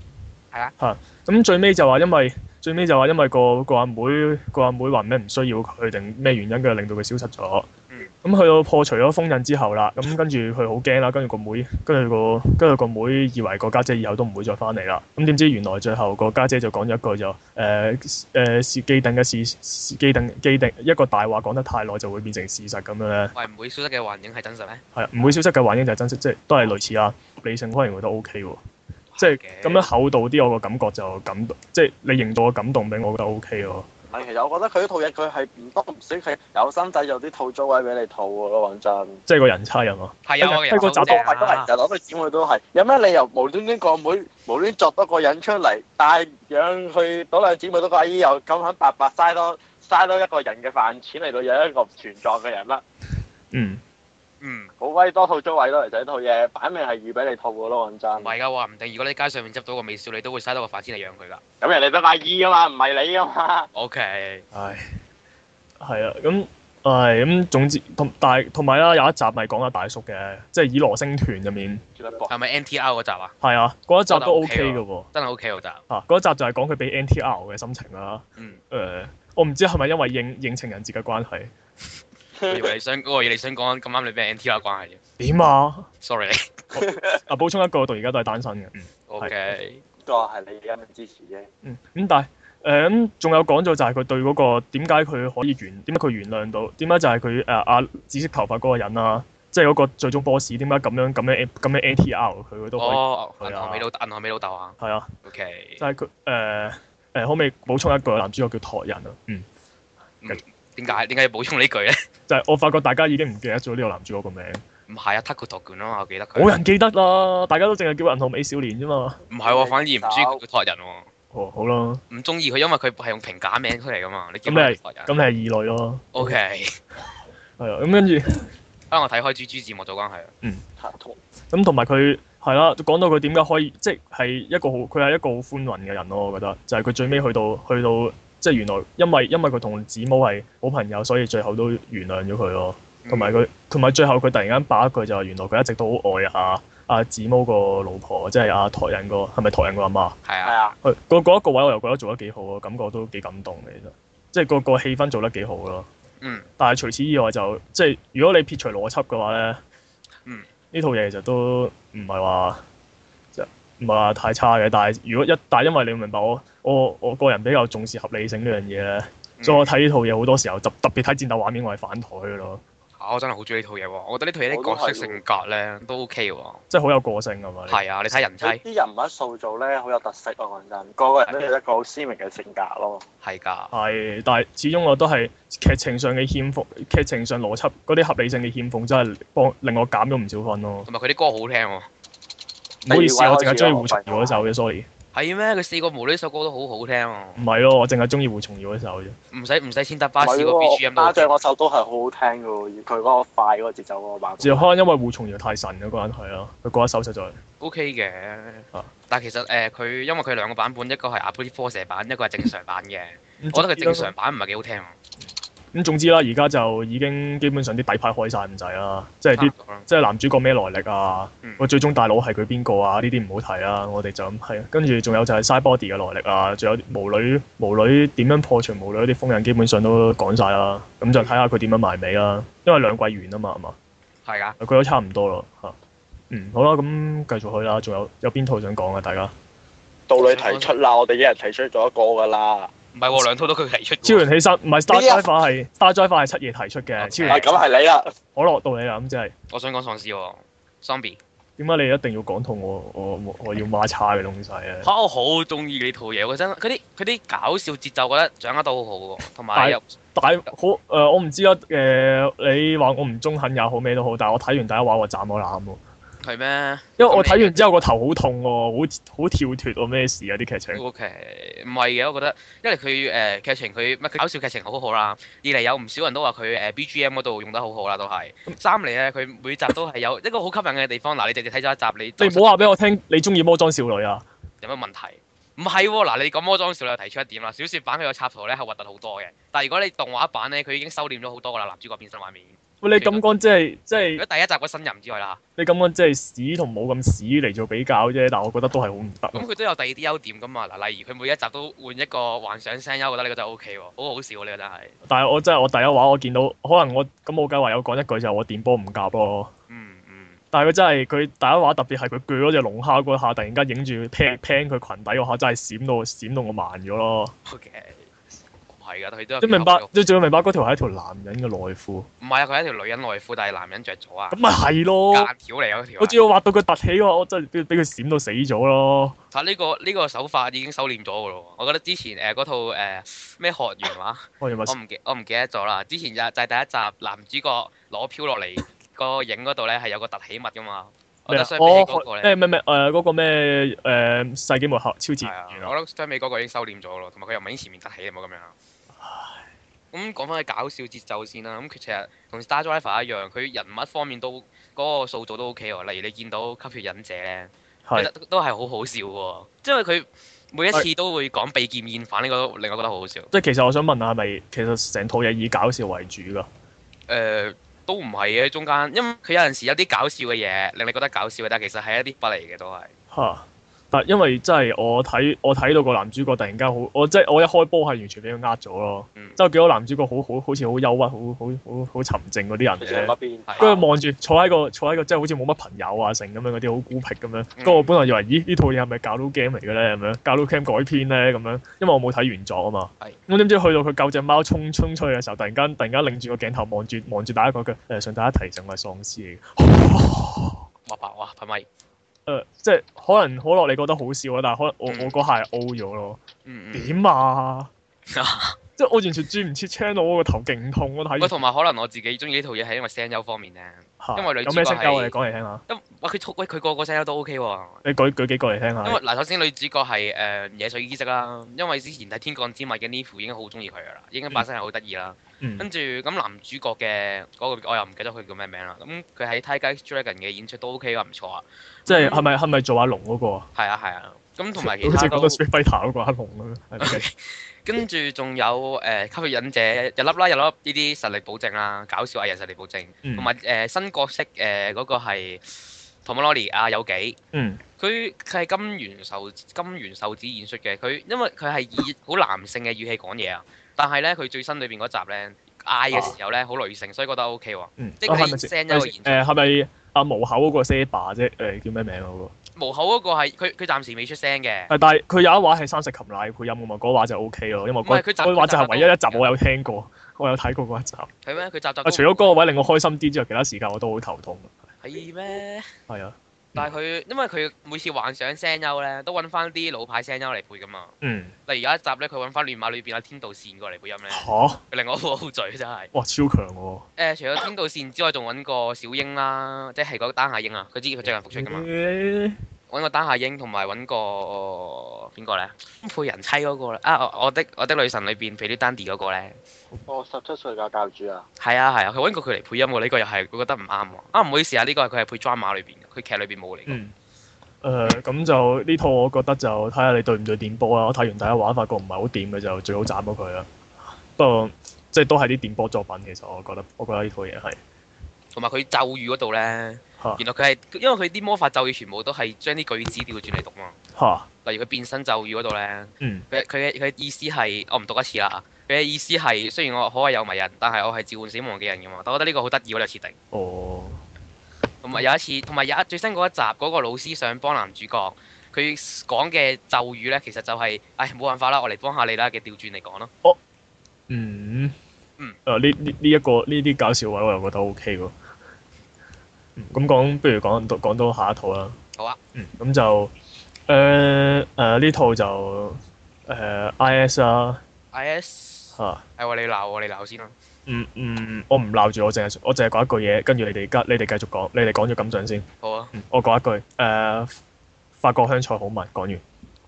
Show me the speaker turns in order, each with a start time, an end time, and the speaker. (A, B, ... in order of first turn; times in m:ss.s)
0:00.8-0:07.7 A
0:08.2-0:23.3 A
0:23.4-0:24.8 B
0:25.0-0:28.6 A
0:29.1-0:29.9 B
0:29.2-0:33.9 A
0:34.1-0:39.2 C
0:39.3-0:41.2 A
0:40.2-0:41.7 B
0:40.8-0:52.8 C
0:53.5-0:53.8 A
0:54.4-0:54.7 B
0:54.8-0:58.4 C
0:58.2-1:01.4 B
1:01.6-1:03.7 C
1:03.8-1:04.4 B
1:04.5-1:04.8 A
1:05.8-1:11.8 A
1:12.0-1:12.3 C
1:12.3-1:13.4 B
1:13.4-1:15.1 A
1:14.1-1:15.8 B
1:15.9-1:21.5 A
1:22.4-1:22.7 C
1:22.5-1:25.0 B
1:25.2-1:25.9 A
1:26.0-1:26.8 B
1:26.8-1:27.1 C
1:27.3-1:29.3 A
1:29.1-1:29.8 B
1:30.0-1:31.5 C
1:31.6-1:43.8 A
1:42.8-1:45.8 B
1:44.8-1:45.1 A
1:45.8-1:49.5 A
1:50.2-1:52.0 B
1:52.3-1:54.6 A
1:54.9-1:56.5 B
1:56.4-1:59.2 A
1:59.3-2:01.1 B
1:59.4-2:00.4 C
2:01.3-2:02.0 A
2:02.1-2:05.1 B
2:04.5-2:06.3 A
2:06.1-2:06.8 B
2:07.6-2:08.5 A
2:08.9-2:10.3 B
2:10.8-2:11.2 C
2:11.5-2:30.2 A
2:23.0-2:23.4 B
2:30.2-2:30.6 B
2:30.4-2:30.8 C
2:30.8-2:35.9 A
2:36.2-2:36.5 B
2:36.6-2:39.6 A
2:40.7-2:42.6 A
2:43.4-2:52.6 A
2:49.4-2:49.7 B
2:53.0-2:56.6 B
2:54.5-2:55.2 C
2:56.7-2:57.8 A
2:57.7-2:58.6 B
2:58.4-3:03.0 C
3:03.2-3:03.7 B
3:03.7-3:10.9 A
3:10.9-3:11.9 B
3:12.9-3:14.9 A
3:12.9-3:14.5 C
3:15.1-3:17.4 B
3:17.4-3:19.2 A
3:19.3-3:21.3 B
3:20.2-3:24.7 C
3:24.4-3:27.4 A
3:27.6-3:35.0 B
3:33.4-3:34.1 A
3:35.7-3:53.8 A
3:39.4-3:39.9 B
3:54.2-3:54.6 B
3:54.6-3:55.8 A
3:56.3-3:59.3 A
4:00.1-4:02.7 C
4:00.2-4:00.7 B
4:02.9-4:04.2 B
4:04.0-4:07.4 A
4:04.9-4:05.2 C
4:07.0-4:07.6 B
4:07.3-4:08.1 C
4:08.4-4:09.3 A
4:09.5-4:11.2 B
4:11.6-4:14.9 A
4:14.8-4:19.8 B
4:19.6-4:25.8 A
4:26.2-4:27.6 B
4:27.0-4:30.8 A
4:30.7-4:42.7 B
4:42.2-4:44.2 A
4:44.6-4:53.2 B
4:52.8-4:54.2 A
4:54.2-4:55.4 B
4:55.6-4:59.5 A
4:59.3-5:05.0 B
5:05.0-5:09.5 A
5:09.7-5:10.4 B
5:10.5-5:17.3 A
5:17.5-5:18.1 B
5:18.7-5:19.9 B
5:19.4-5:22.1 A
5:22.2-5:24.4 B
5:24.3-5:25.3 A
5:25.1-5:26.2 B
5:26.0-5:29.2 A
5:29.3-5:42.3 B
5:34.4-5:34.8 A
5:41.3-5:45.7 A
5:45.2-5:48.5 B
5:49.0-5:49.4 A
5:49.9-6:03.3 B
6:03.3-6:06.5 A
6:07.1-6:12.9 B
6:13.1-6:40.6 A
6:22.8-6:23.8 C
6:27.6-6:27.9 B
6:40.9-6:41.6 B
6:42.3-6:46.2 A
6:44.9-6:45.2 B
6:46.4-6:47.0 B
6:46.7-6:47.7 A
6:48.1-6:48.6 B
6:48.8-6:51.4 A
6:51.2-6:55.2 B
6:54.0-6:55.6 A
6:55.7-6:57.8 B
6:57.8-6:59.0 A
6:58.8-7:12.3 B
7:05.4-7:05.7 A
7:11.9-7:13.5 A
7:13.6-7:15.4 B
7:14.6-7:17.0 A
7:16.8-7:27.2 B
7:23.0-7:23.3 A
7:27.3-7:27.6 A
7:27.8-7:39.2 B
7:37.8-7:42.3 A
7:42.6-7:44.7 B
7:44.7-7:51.1 A
7:47.8-7:49.3 B
7:51.2-7:52.3 B
7:51.8-7:54.5 A
7:54.8-7:55.7 B
7:55.9-7:56.7 A
7:56.6-8:00.9 B
8:01.0-8:01.3 A
8:01.5-8:05.9 B
8:04.1-8:04.6 A
8:05.9-8:06.8 A
8:07.0-8:11.7 B
8:11.3-8:12.4 A
8:12.7-8:19.4 B
8:19.9-8:21.2 C
8:21.4-8:26.8 B
8:26.7-8:26.9 A
8:27.6-8:33.5 A
8:34.2-8:37.6 A
8:38.3-8:43.8 B
8:44.0-8:44.3 A
8:44.4-8:53.2 B
8:46.0-8:46.3 A
8:53.3-8:54.0 A
8:54.8-9:03.1 B
9:04.1-9:04.8 A
9:05.5-9:08.1 A
9:09.6-9:11.8 A
9:12.4-9:13.1 A
9:13.7-9:17.6 A
9:17.9-9:20.3 B
9:18.8-9:19.0 A
9:20.7-9:27.4 A
9:25.6-9:25.9 B
9:28.0-9:29.2 A